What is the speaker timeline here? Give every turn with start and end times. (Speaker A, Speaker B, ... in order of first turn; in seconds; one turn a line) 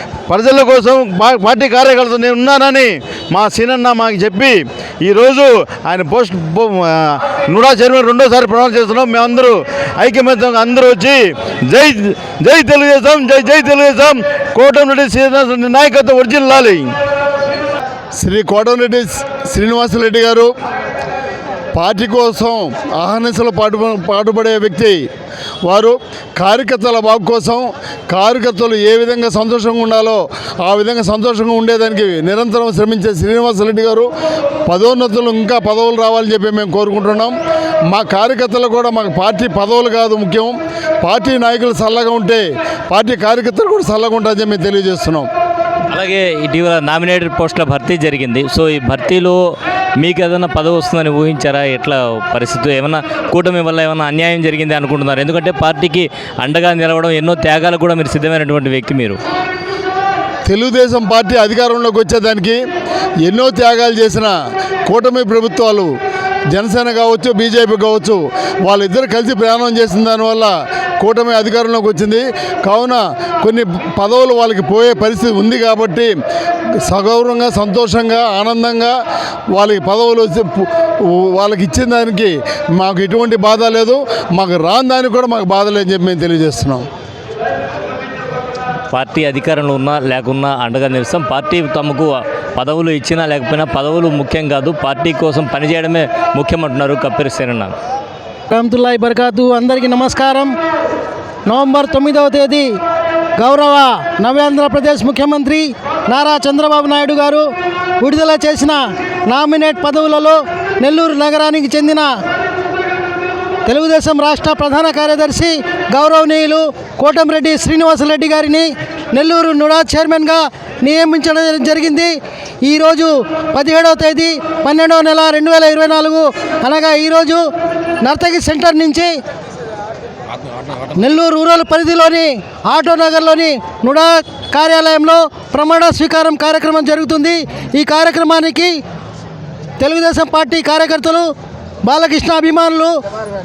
Speaker A: 0.3-16.9
Speaker B: 18.2-20.5
Speaker B: 21.7-25.1
Speaker B: 25.7-34.1
Speaker B: 34.7-37.3
Speaker B: 37.9-45.3
Speaker C: 45.9-49.4
Speaker C: 50.0-59.2
Speaker B: 60.5-62.6
Speaker B: 63.2-64.3
Speaker B: 64.9-65.9
Speaker B: 66.5-76.1
Speaker B: 76.8-78.9
Speaker B: 79.5-86.8
Speaker C: 88.9-97.7
Speaker D: 98.5-100.5
Speaker D: 101.5-102.7
Speaker D: 103.4-107.5
Speaker D: 108.0-112.1
Speaker D: 113.7-122.1
Speaker D: 122.7-127.4
Speaker D: 128.0-129.1
Speaker D: 131.0-138.7
Speaker D: 139.8-141.3
Speaker D: 141.8-142.9